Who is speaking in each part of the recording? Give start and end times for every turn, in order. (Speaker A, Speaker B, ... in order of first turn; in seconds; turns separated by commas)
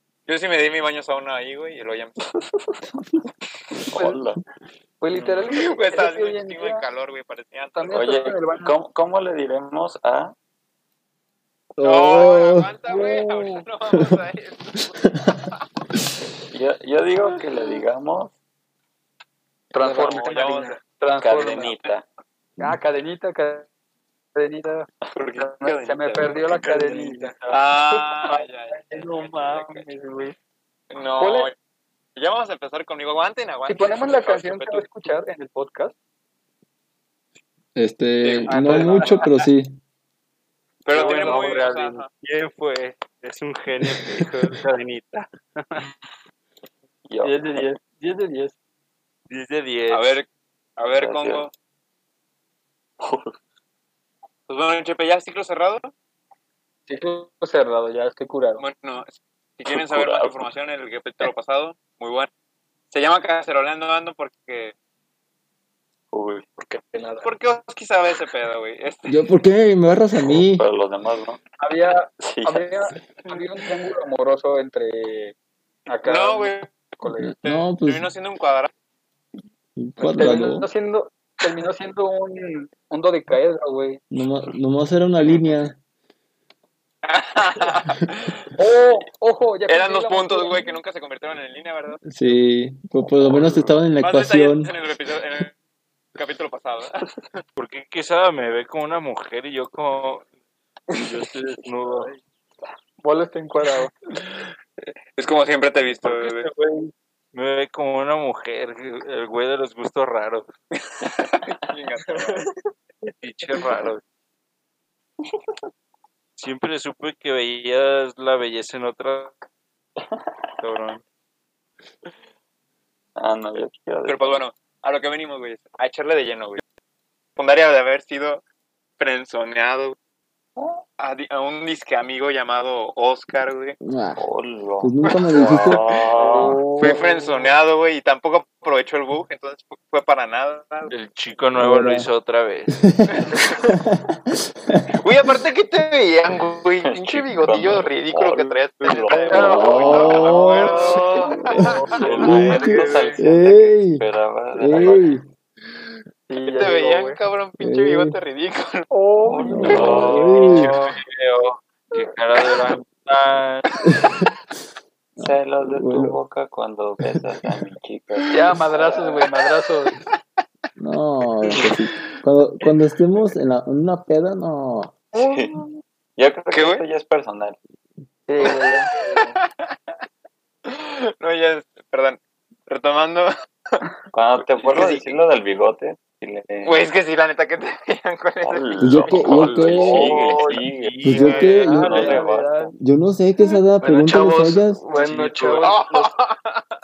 Speaker A: 0.3-2.2, Speaker B: 3.8-4.4, Speaker C: 5.0-6.9, Speaker A: 5.5-8.1, Speaker C: 7.7-8.7, Speaker B: 7.9-10.3, Speaker D: 11.8-12.8, Speaker A: 11.8-14.9, Speaker B: 16.5-18.3, Speaker C: 19.7-21.8, Speaker E: 19.8-20.8, Speaker A: 20.0-20.8, Speaker B: 21.2-22.1, Speaker C: 22.6-23.7, Speaker C: 24.4-30.4, Speaker A: 25.1-26.3, Speaker E: 26.2-27.4, Speaker A: 27.5-29.9, Speaker A: 30.9-31.5, Speaker C: 31.2-31.5, Speaker A: 32.1-34.9, Speaker C: 33.7-35.9, Speaker D: 37.8-39.8, Speaker A: 38.2-39.3, Speaker C: 38.5-39.3, Speaker A: 40.9-42.1, Speaker F: 40.9-45.9, Speaker C: 40.9-41.6, Speaker B: 47.1-47.7, Speaker C: 47.2-48.5, Speaker F: 49.3-50.2, Speaker A: 49.9-51.5, Speaker B: 51.0-51.5, Speaker B: 53.0-53.3, Speaker A: 54.5-55.9, Speaker C: 56.9-58.6, Speaker A: 58.6-62.3, Speaker B: 59.7-60.5, Speaker A: 62.9-64.7, Speaker B: 66.1-66.4, Speaker E: 66.6-67.3, Speaker A: 67.2-69.3, Speaker D: 69.1-70.7, Speaker B: 70.2-71.4, Speaker C: 71.6-75.3, Speaker B: 72.2-72.7, Speaker C: 75.9-77.3, Speaker A: 76.0-76.8, Speaker D: 77.2-78.1, Speaker A: 77.4-78.7, Speaker D: 79.8-80.7, Speaker C: 80.1-84.0, Speaker D: 84.1-85.8, Speaker A: 87.0-88.5, Speaker C: 88.6-90.6, Speaker A: 89.7-92.0, Speaker D: 92.1-94.7, Speaker B: 93.3-93.7, Speaker A: 94.0-95.5, Speaker A: 96.2-97.4, Speaker F: 97.6-100.2, Speaker F: 100.9-102.2, Speaker C: 103.0-103.9, Speaker A: 105.2-106.5, Speaker F: 106.0-110.5, Speaker A: 110.8-112.5, Speaker E: 112.1-112.5, Speaker F: 113.1-114.0, Speaker F: 116.4-119.4, Speaker F: 120.6-121.0, Speaker B: 123.2-124.4, Speaker A: 124.1-126.6, Speaker A: 127.4-128.4, Speaker A: 129.0-129.9, Speaker B: 130.6-130.8, Speaker A: 131.0-133.8, Speaker D: 133.8-134.2, Speaker B: 134.2-136.6, Speaker D: 134.8-136.5, Speaker A: 135.0-135.8, Speaker C: 136.2-137.5, Speaker A: 136.8-140.9, Speaker F: 140.9-142.8, Speaker D: 141.6-142.1, Speaker D: 142.7-144.2, Speaker A: 143.1-143.6, Speaker D: 144.7-145.0, Speaker A: 145.0-153.1, Speaker B: 146.8-151.3, Speaker C: 149.3-150.2, Speaker D: 149.3-150.9, Speaker F: 149.9-150.5, Speaker C: 151.6-151.9, Speaker B: 151.9-155.1, Speaker F: 152.2-153.0, Speaker D: 152.2-154.0, Speaker D: 154.5-155.2, Speaker C: 156.3-157.2, Speaker A: 156.4-158.9, Speaker D: 157.6-158.2, Speaker C: 158.9-160.1, Speaker B: 159.2-160.5, Speaker D: 159.4-160.7, Speaker F: 159.6-163.7, Speaker A: 160.4-160.9, Speaker D: 165.2-166.2, Speaker B: 165.2-169.2, Speaker C: 168.3-169.9, Speaker D: 170.8-174.9, Speaker A: 175.1-175.6, Speaker B: 175.2-175.6, Speaker B: 176.2-177.6, Speaker A: 176.5-176.8, Speaker C: 178.3-178.9, Speaker A: 178.4-179.7, Speaker A: 180.7-183.8, Speaker B: 184.1-186.8, Speaker A: 184.4-185.2, Speaker A: 186.6-189.4, Speaker B: 188.4-192.7, Speaker D: 188.8-190.2, Speaker F: 189.6-192.3, Speaker D: 191.0-192.1, Speaker C: 191.7-192.7, Speaker D: 192.8-194.8, Speaker E: 193.8-196.0, Speaker F: 194.9-195.7, Speaker A: 195.6-196.7